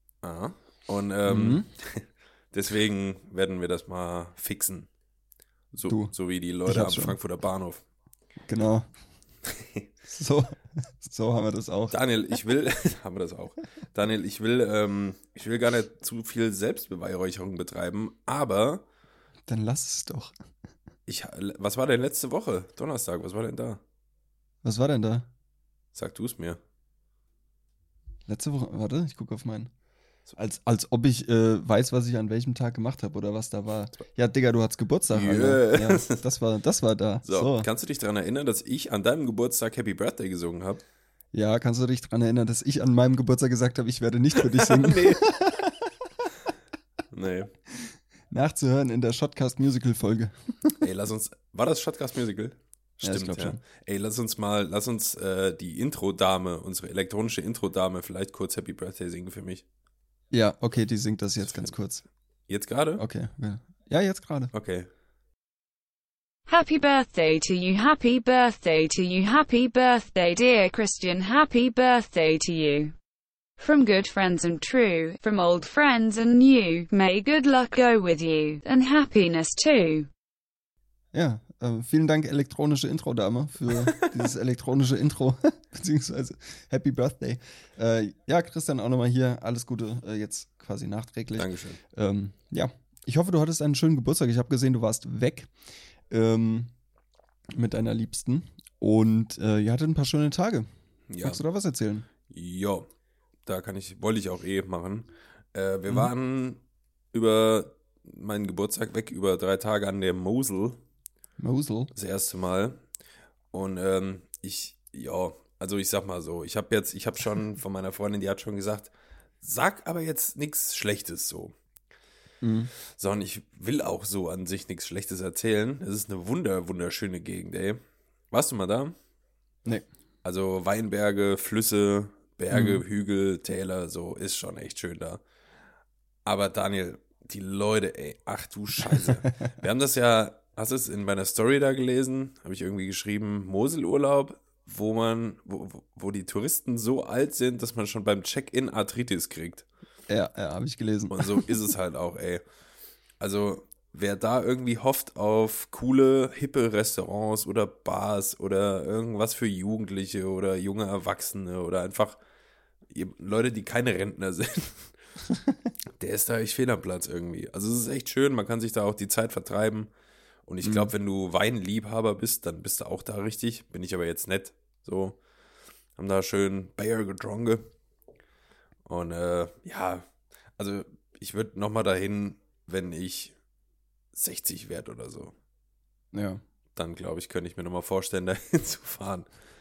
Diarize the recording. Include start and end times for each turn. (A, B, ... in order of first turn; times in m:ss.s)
0:00.2-0:04.9 A
0:01.3-0:01.7 B
0:05.7-0:07.8 A
0:05.9-0:06.1 B
0:06.7-0:07.2 B
0:08.5-0:08.9 B
0:09.5-0:09.9 A
0:10.1-0:12.0 B
0:11.9-0:18.8 A
0:19.5-0:20.3 B
0:21.1-0:23.8 A
0:24.6-0:25.3 B
0:25.9-0:26.6 A
0:28.3-0:29.7 B
0:30.4-0:37.7 B
0:35.1-0:36.2 A
0:37.2-0:40.8 A
0:41.3-0:45.9 B
0:44.5-0:45.3 A
0:47.1-0:47.5 A
0:47.8-0:50.8 B
0:50.8-0:59.6 A
0:53.0-0:53.6 B
1:00.3-1:02.0 B
1:01.4-1:01.7 A
1:02.5-1:03.0 A
1:03.0-1:04.5 B
1:04.5-1:04.9 A
1:06.5-1:12.9 C
1:13.6-1:20.1 C
1:21.1-1:35.5 B
1:31.4-1:31.8 A
1:36.1-1:36.7 B
1:37.6-1:40.7 B
1:41.1-1:41.4 A
1:41.2-1:42.1 B
1:42.3-1:42.9 A
1:43.4-1:46.6 A
1:47.1-1:50.8 A
1:51.4-1:51.9 B
1:51.9-1:52.8 A
1:53.5-2:01.6 A
2:02.4-2:02.7 B
2:03.0-2:09.0 A
2:10.2-2:15.2 A
2:12.5-2:12.8 B
2:16.2-2:29.7 A
2:30.1-2:31.6 B
2:31.1-2:32.4 A
2:33.2-2:42.2 A
2:42.9-2:44.9 A
2:46.0-2:49.9 A
2:50.5-2:55.2 A
2:50.6-2:50.9 B
2:56.0-2:57.7 A
2:58.8-3:00.1 A
3:00.6-3:03.3 A
3:04.1-3:05.3 A
3:06.1-3:06.4 B
3:06.8-3:09.3 A